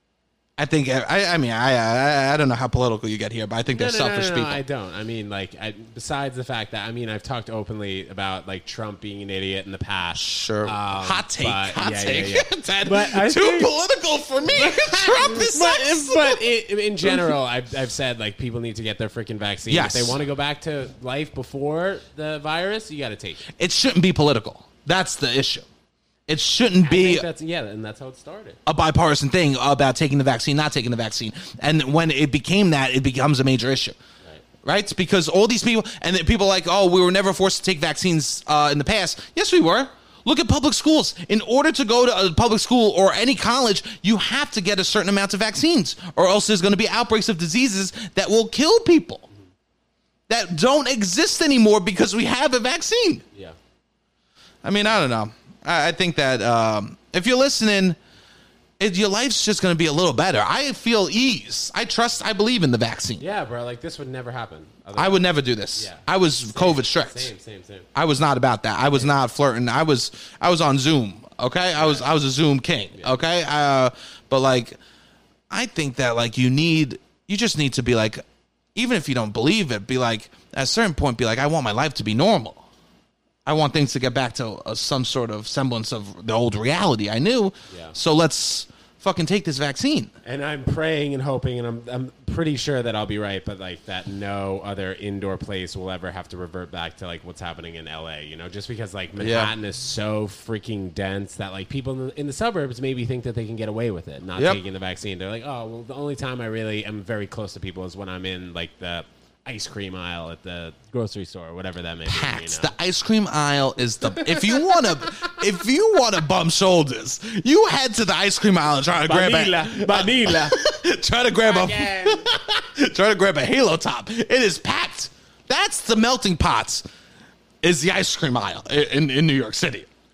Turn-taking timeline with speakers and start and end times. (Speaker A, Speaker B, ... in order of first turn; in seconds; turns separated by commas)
Speaker A: 0.6-4.6, Speaker B: 3.7-13.7, Speaker A: 10.2-16.4, Speaker B: 14.4-23.5, Speaker A: 17.0-17.3, Speaker A: 19.7-20.2, Speaker A: 23.6-25.6, Speaker A: 26.3-27.2, Speaker B: 26.8-28.6, Speaker A: 28.6-34.0, Speaker A: 34.6-49.2, Speaker A: 50.3-53.2, Speaker A: 54.6-58.0, Speaker A: 58.8-63.2, Speaker B: 63.2-67.9, Speaker A: 65.0-67.3, Speaker A: 67.9-74.8, Speaker B: 71.8-72.1, Speaker A: 75.5-78.2, Speaker A: 78.7-82.6, Speaker A: 83.5-90.1, Speaker B: 87.7-87.9, Speaker B: 90.2-112.7, Speaker A: 99.2-99.5, Speaker A: 112.0-126.8, Speaker B: 114.1-115.4, Speaker B: 119.0-120.6, Speaker B: 121.4-122.3, Speaker A: 127.6-129.9